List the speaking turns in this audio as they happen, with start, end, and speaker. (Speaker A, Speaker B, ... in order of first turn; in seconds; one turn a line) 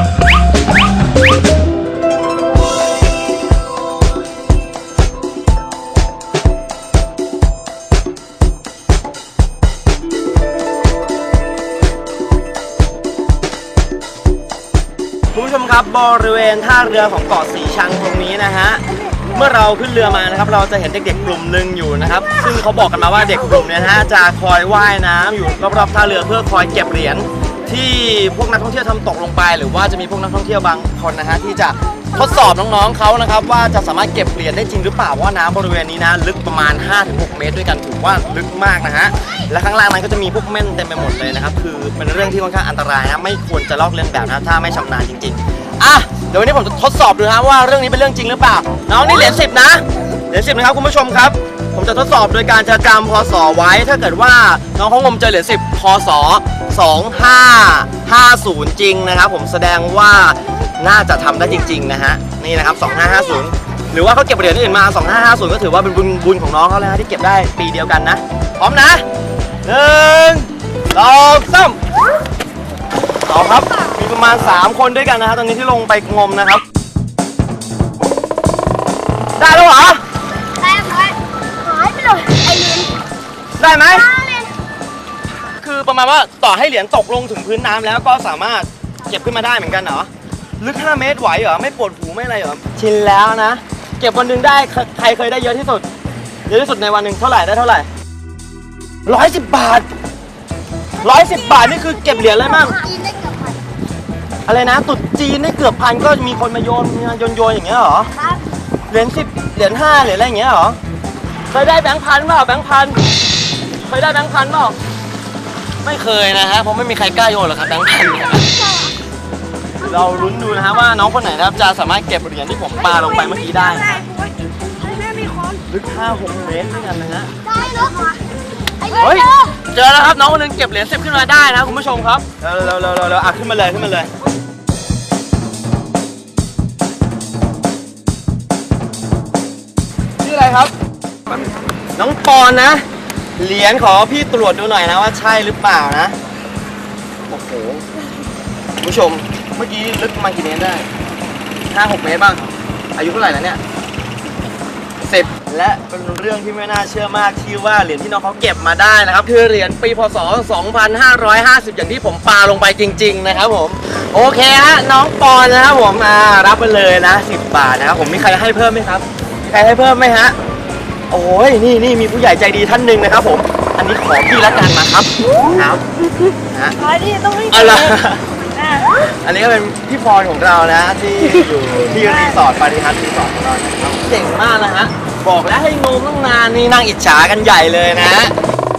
Speaker A: 15.3-69.0
Speaker A: 69.6-71.8
Speaker A: 73.3-76.6
Speaker A: 79.4-80.0
Speaker B: 80.9-81.2
Speaker B: 81.7-82.9
Speaker A: 83.6-84.2
Speaker A: 85.6-90.1
Speaker A: 90.6-95.8
Speaker A: 96.5-97.9
Speaker A: 99.1-99.9
Speaker A: 101.0-102.9
Speaker B: 103.0-103.5
Speaker A: 104.5-108.1
Speaker A: 108.9-110.8
Speaker A: 111.5-113.0
Speaker A: 113.9-114.8
Speaker A: 115.8-118.7
Speaker A: 119.8-124.1
Speaker B: 124.0-125.6
Speaker A: 125.7-127.3
Speaker B: 127.6-128.2
Speaker A: 128.8-134.1
Speaker A: 140.2-140.7
Speaker A: 142.0-142.8
Speaker A: 143.4-146.2
Speaker A: 147.3-147.8
Speaker A: 148.8-150.9
Speaker A: 151.7-152.4
Speaker A: 153.0-153.6
Speaker A: 155.0-170.4
Speaker A: 171.1-175.8
Speaker A: 176.5-176.8
Speaker B: 176.8-177.8
Speaker A: 177.4-178.3
Speaker B: 178.5-178.9
Speaker A: 178.9-188.3